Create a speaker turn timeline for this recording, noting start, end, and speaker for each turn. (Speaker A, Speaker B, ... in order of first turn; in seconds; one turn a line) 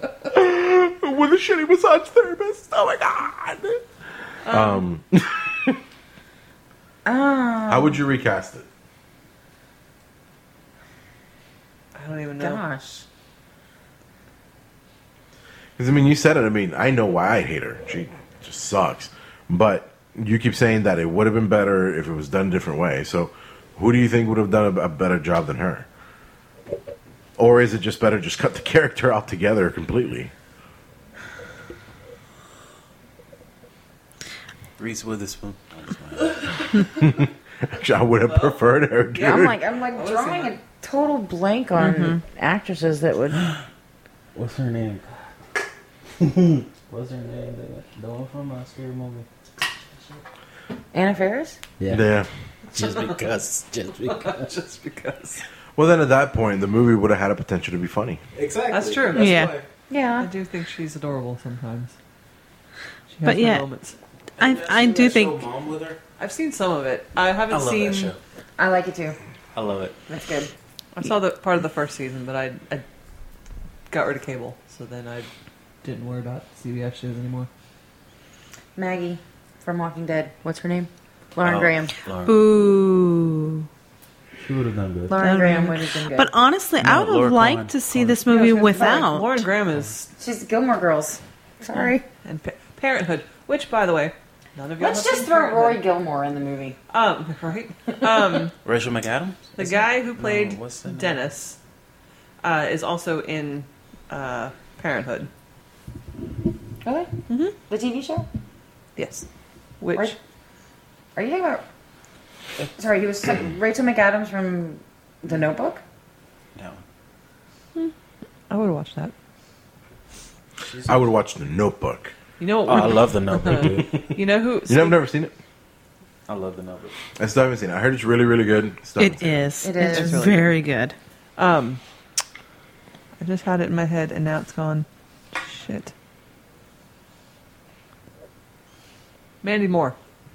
Speaker A: 0.3-3.9
Speaker B: 4.4-4.8
Speaker A: 4.5-5.8
Speaker C: 7.0-8.0
Speaker A: 7.7-8.7
Speaker B: 11.9-12.6
Speaker C: 12.4-13.1
Speaker A: 15.8-25.9
Speaker A: 27.4-30.3
Speaker D: 34.8-36.8
Speaker A: 36.9-39.6
Speaker B: 38.3-38.6
Speaker B: 39.1-39.4
Speaker C: 39.2-43.5
Speaker B: 40.0-40.6
Speaker E: 41.8-42.2
Speaker D: 44.4-45.1
Speaker D: 46.2-49.3
Speaker C: 50.9-51.6
Speaker D: 51.8-52.1
Speaker A: 51.9-52.3
Speaker D: 52.7-54.5
Speaker B: 54.0-55.4
Speaker A: 55.8-58.2
Speaker D: 58.4-59.6
Speaker B: 58.7-59.4
Speaker E: 59.1-59.5
Speaker C: 59.9-60.3
Speaker B: 60.2-62.0
Speaker B: 63.1-64.0
Speaker E: 63.2-63.6
Speaker D: 64.4-66.0
Speaker E: 64.4-65.5
Speaker B: 66.2-68.1
Speaker D: 67.5-68.2
Speaker C: 68.6-69.2
Speaker D: 69.5-70.0
Speaker C: 70.1-70.5
Speaker B: 71.0-72.8
Speaker B: 73.9-75.3
Speaker B: 75.8-77.5
Speaker C: 78.8-82.0
Speaker D: 81.4-82.5
Speaker E: 82.2-83.7
Speaker D: 84.4-85.2
Speaker C: 85.1-86.3
Speaker E: 85.2-89.5
Speaker D: 86.8-88.2
Speaker B: 88.3-90.1
Speaker C: 88.7-89.1
Speaker C: 90.2-92.0
Speaker B: 91.8-95.8
Speaker C: 94.8-96.8
Speaker B: 96.9-98.5
Speaker D: 98.6-101.2
Speaker B: 99.6-101.6
Speaker B: 102.4-105.3
Speaker C: 106.8-107.1
Speaker B: 107.3-107.5
Speaker C: 107.7-108.3
Speaker B: 109.0-109.3
Speaker B: 109.8-110.2
Speaker C: 111.2-111.6
Speaker C: 112.8-115.8
Speaker D: 116.5-116.8
Speaker B: 118.5-119.1
Speaker D: 120.6-121.1
Speaker A: 120.9-122.1
Speaker B: 122.4-125.0
Speaker D: 122.7-124.1
Speaker A: 124.7-125.3
Speaker D: 126.3-127.0
Speaker A: 127.2-129.4
Speaker E: 129.0-131.0
Speaker C: 129.6-130.3
Speaker B: 129.8-130.6
Speaker B: 131.4-131.8
Speaker B: 133.2-135.9
Speaker B: 139.4-140.0